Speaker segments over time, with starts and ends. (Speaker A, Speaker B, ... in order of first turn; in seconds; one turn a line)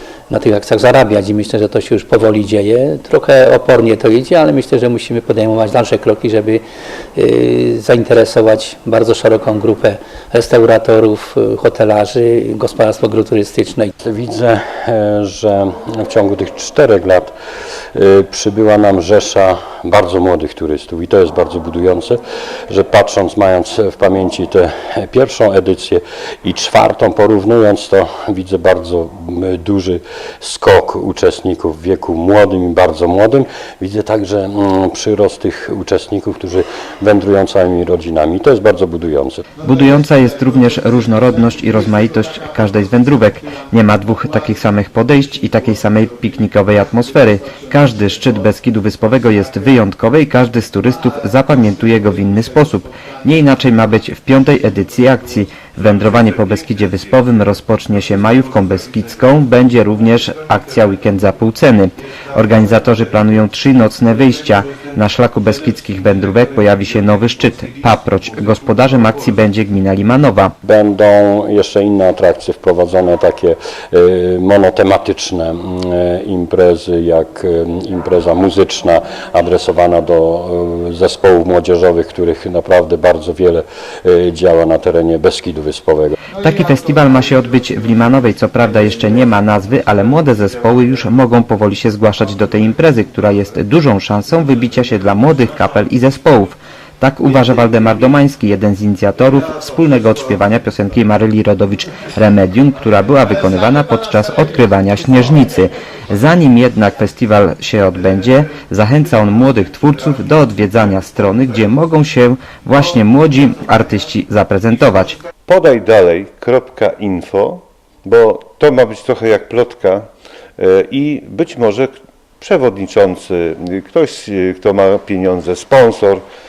Speaker A: 0.3-6.6
Speaker A: 7.2-13.9
Speaker B: 14.0-17.3
Speaker B: 17.9-39.5
Speaker C: 39.6-70.5
Speaker B: 70.6-86.2
Speaker C: 86.4-115.2
Speaker D: 115.5-126.2